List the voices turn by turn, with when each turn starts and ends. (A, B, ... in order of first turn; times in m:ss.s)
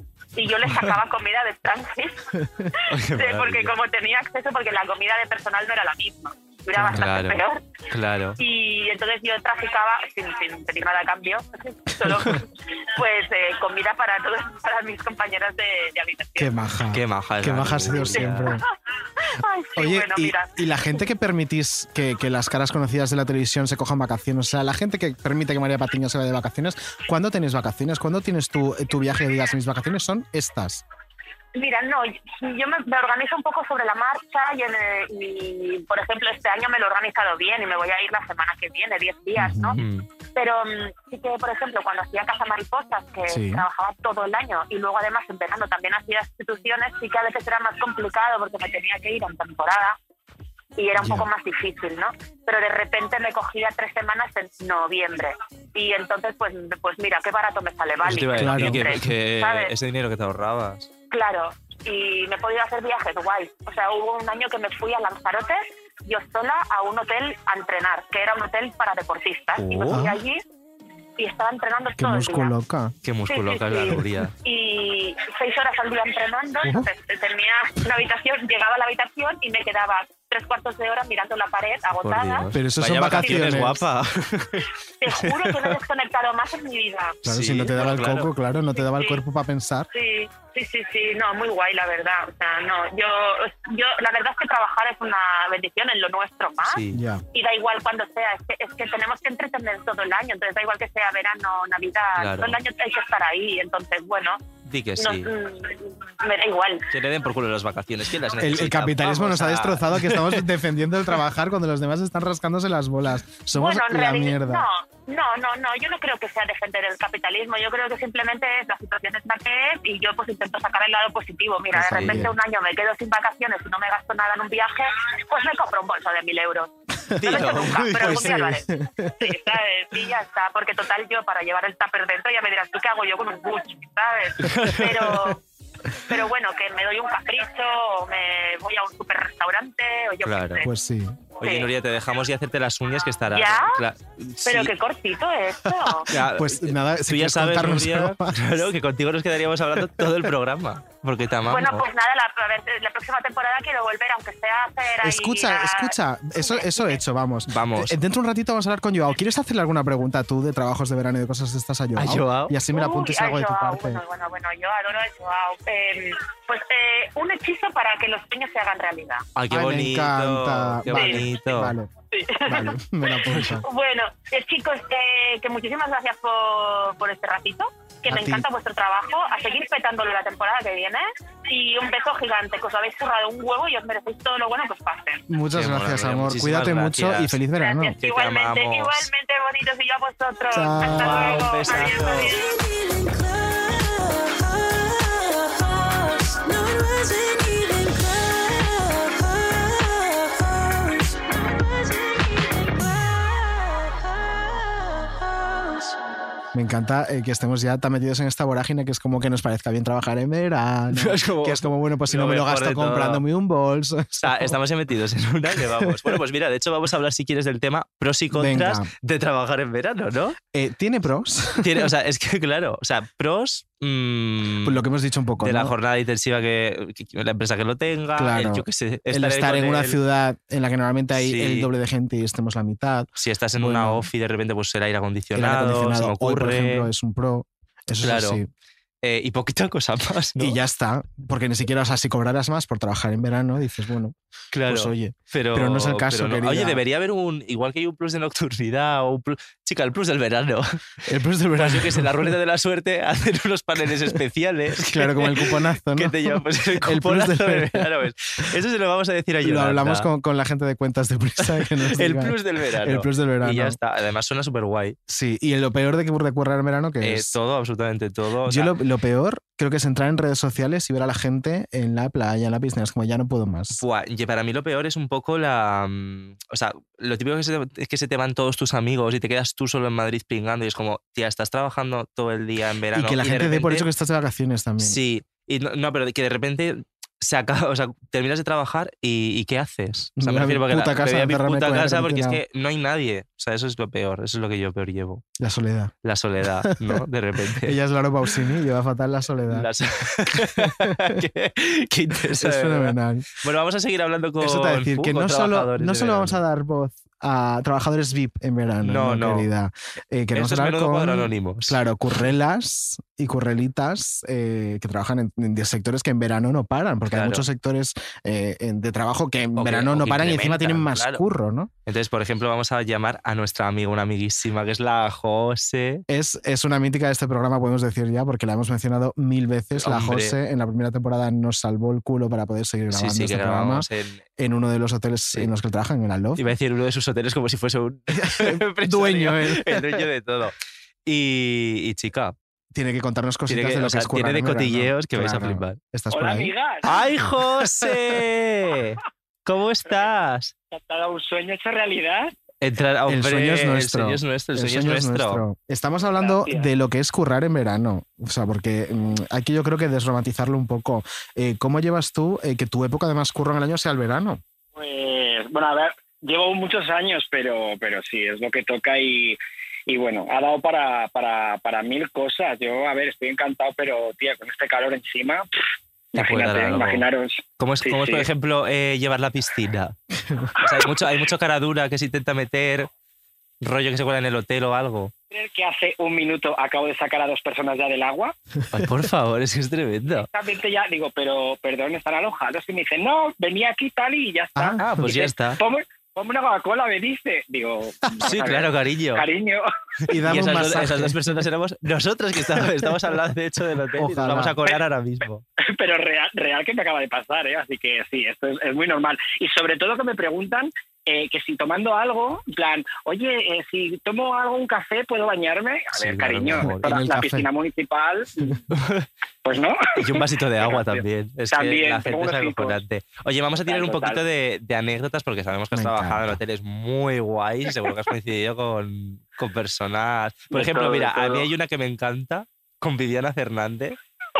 0:00.3-0:07.6 A
0:02.9-0:03.7 B
0:06.7-0:07.0 C
0:06.9-0:08.4 B
0:08.4-0:16.5 A
0:16.4-0:18.6 C
0:16.9-0:18.5 B
0:18.2-0:18.6 A
0:19.2-0:20.6 A
0:19.8-0:30.8 C
0:31.5-0:39.8 A
0:39.4-0:39.8 C
0:39.8-0:40.0 B
0:40.3-0:50.0 A
0:43.3-0:43.6 C
0:50.8-0:59.7 A
0:51.0-0:51.3 C
0:58.0-1:00.9 B
0:58.3-0:59.0 C
1:01.1-1:10.4 A
1:09.6-1:10.0 B
1:09.9-1:10.2 C
1:11.2-1:12.5 A
1:12.0-1:12.9 C
1:13.0-1:14.3 B
1:13.3-1:22.4 A
1:16.6-1:16.9 C
1:22.0-1:25.7 B
1:22.5-1:23.8 C
1:23.2-1:23.6 A
1:25.0-1:27.2 A
1:27.2-1:29.9 C
1:27.3-1:28.3 B
1:28.8-1:29.2 A
1:29.9-1:36.8 A
1:36.6-1:37.0 B
1:36.9-1:37.2 C
1:37.3-1:44.4 A
1:42.2-1:42.6 B
1:44.6-1:45.3 B
1:45.0-1:46.9 A
1:46.9-1:50.5 B
1:48.4-1:54.6 C
1:53.5-2:15.4 A
2:01.7-2:02.3 C
2:01.8-2:02.2 B
2:07.2-2:08.4 B
2:07.2-2:09.3 C
2:14.4-2:15.1 B
2:16.1-2:20.7 A
2:20.2-2:20.6 B
2:20.6-2:21.2 C
2:21.4-2:21.7 A
2:21.4-2:24.7 B
2:23.3-2:23.8 A
2:24.4-2:26.1 A
2:25.9-2:28.6 C
2:26.1-2:31.8 B
2:31.5-2:37.0 A
2:35.0-2:44.0 C
2:37.5-2:38.0 B
2:42.0-2:42.5 B
2:42.7-2:49.2 A
2:49.4-2:51.7 B
2:49.5-2:51.9 C
2:50.9-2:51.2 A
2:52.1-3:05.2 A
2:52.4-2:53.6 C
2:58.1-2:58.4 C
3:05.3-3:08.0 C
3:05.5-3:07.4 B
3:07.6-3:12.4 A
3:08.0-3:09.1 B
3:10.5-3:11.4 C
3:10.8-3:12.3 B
3:12.2-3:25.9 D
3:26.5-3:34.6 C
3:30.9-3:33.2 B
3:34.2-3:40.4 B
3:35.5-3:36.2 C
3:38.3-3:38.9 C
3:40.5-3:41.9 C
3:41.6-3:44.8 B
3:44.6-3:45.7 C
3:45.4-3:50.0 B
3:48.2-3:54.1 C
3:51.1-3:51.7 B
3:53.2-3:56.9 B
3:55.3-3:58.5 C
3:58.0-3:58.4 B
3:59.0-4:00.6 B
4:00.4-4:06.8 C
4:04.5-4:10.8 B
4:11.0-4:12.3 C
4:11.6-4:20.1 B
4:14.8-4:17.9 C
4:19.4-4:23.8 C
4:21.6-4:25.0 B
4:25.1-4:27.4 C
4:27.0-4:28.7 B
4:28.4-4:33.8 C
4:33.7-4:43.9 B
4:42.9-4:45.0 C
4:44.8-4:55.2 B
4:50.2-4:52.4 C
4:55.4-4:55.9 C
4:56.0-4:57.8 B
4:56.6-4:59.7 C
4:59.5-5:06.4 B
5:00.3-5:01.2 C
5:02.3-5:03.3 C
5:04.4-5:21.7 C
5:08.8-5:09.5 B
5:10.3-5:11.8 B
5:17.1-5:17.4 B
5:19.6-5:21.2 B
5:21.8-5:26.0 B
5:26.1-5:36.5 C
5:29.8-5:30.4 B
5:32.9-5:34.2 B
5:36.4-5:40.5 B
5:38.1-5:40.1 C
5:41.0-5:42.3 B
5:42.7-5:46.5 C
5:43.5-5:45.8 B
5:46.1-5:46.9 E
5:46.8-5:50.5 B
5:50.7-5:52.3 E
5:52.6-5:55.4 B
5:53.1-6:04.4 C
5:56.1-5:56.7 E
6:04.7-6:15.5 E
6:16.1-6:18.3 E
6:16.2-6:17.0 B
6:17.6-6:20.0 B
6:20.5-6:22.9 B
6:23.6-6:25.1 B
6:25.3-6:28.4 E
6:28.7-6:30.3 B
6:30.1-6:39.7 E
6:34.5-6:34.8 C
6:34.8-6:35.6 B
6:38.2-6:39.2 B
6:40.1-6:41.2 C
6:40.1-6:45.4 B
6:43.9-6:44.6 C
6:45.6-6:58.6 E
6:55.9-6:56.9 B
6:56.6-6:57.5 C
6:58.7-6:59.1 B
6:59.4-7:02.8 E
6:59.9-7:14.0 B
7:03.6-7:04.2 E
7:05.7-7:06.4 C
7:10.5-7:11.5 E